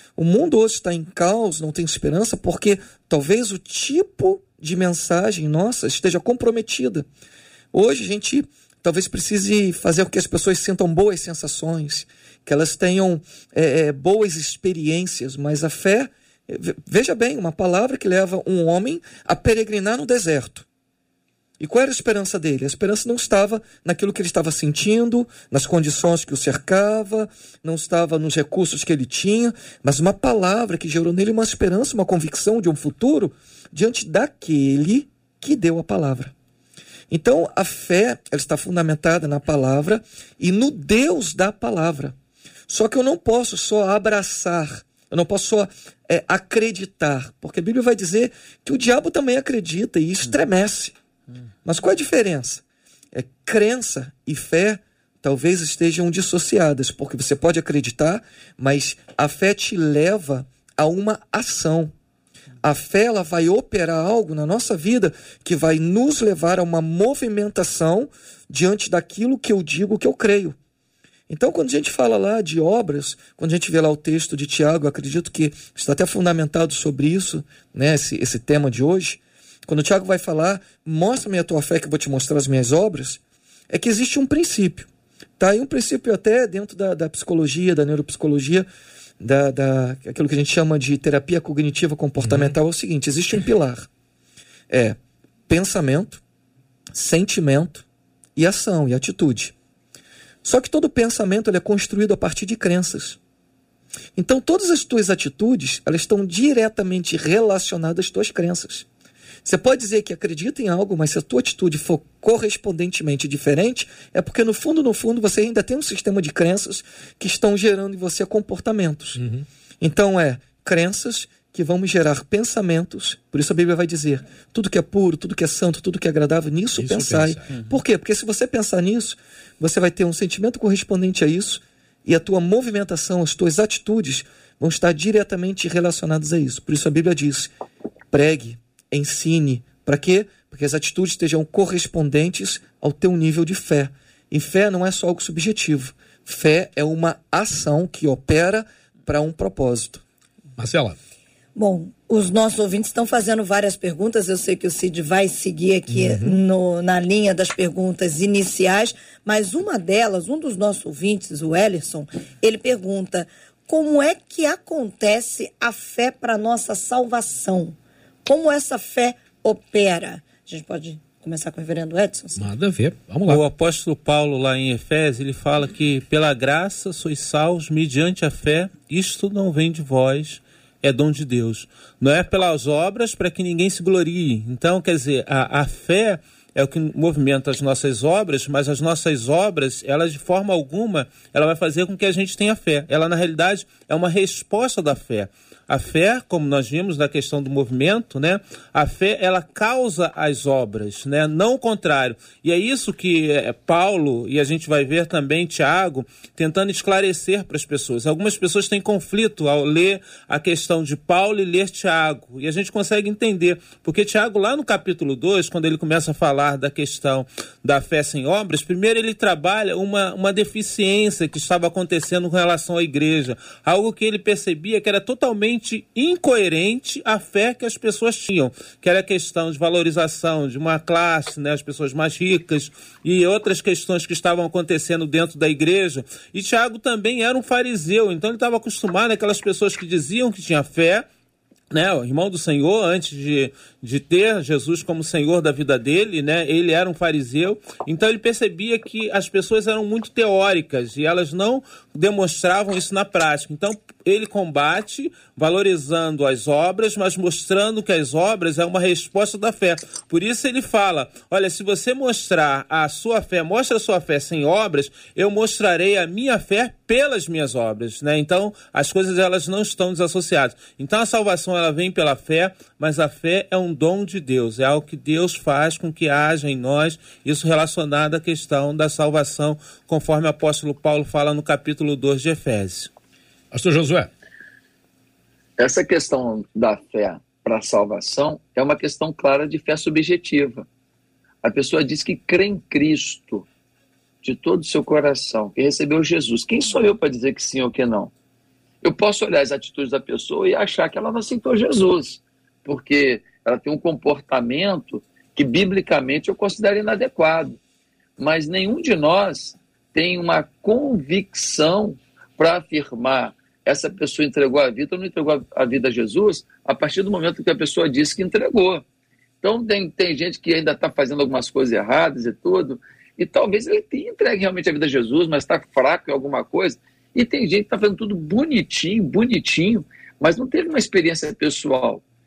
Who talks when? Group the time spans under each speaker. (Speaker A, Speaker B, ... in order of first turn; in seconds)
Speaker A: 0.1-7.1, 7.7-20.6, 21.6-36.3, 37.1-42.1, 42.7-50.9, 51.6-61.9, 62.6-70.5, 71.3-84.9, 85.4-88.7, 89.2-93.9, 94.7-95.0, 95.5-96.2, 96.9-97.8, 98.3-99.5, 100.4-103.2, 104.2-108.8, 109.4-119.2, 119.8-137.5, 138.1-150.0
Speaker B: 92.2-92.5, 119.2-119.5, 126.8-127.4, 150.6-150.9, 155.9-156.4, 172.4-173.4, 283.5-284.1
Speaker C: 151.6-172.4
Speaker D: 173.3-241.0, 241.7-282.9
Speaker E: 285.6-290.6, 291.4-293.5, 294.2-298.1, 298.8-307.6, 308.2-318.8, 319.4-332.0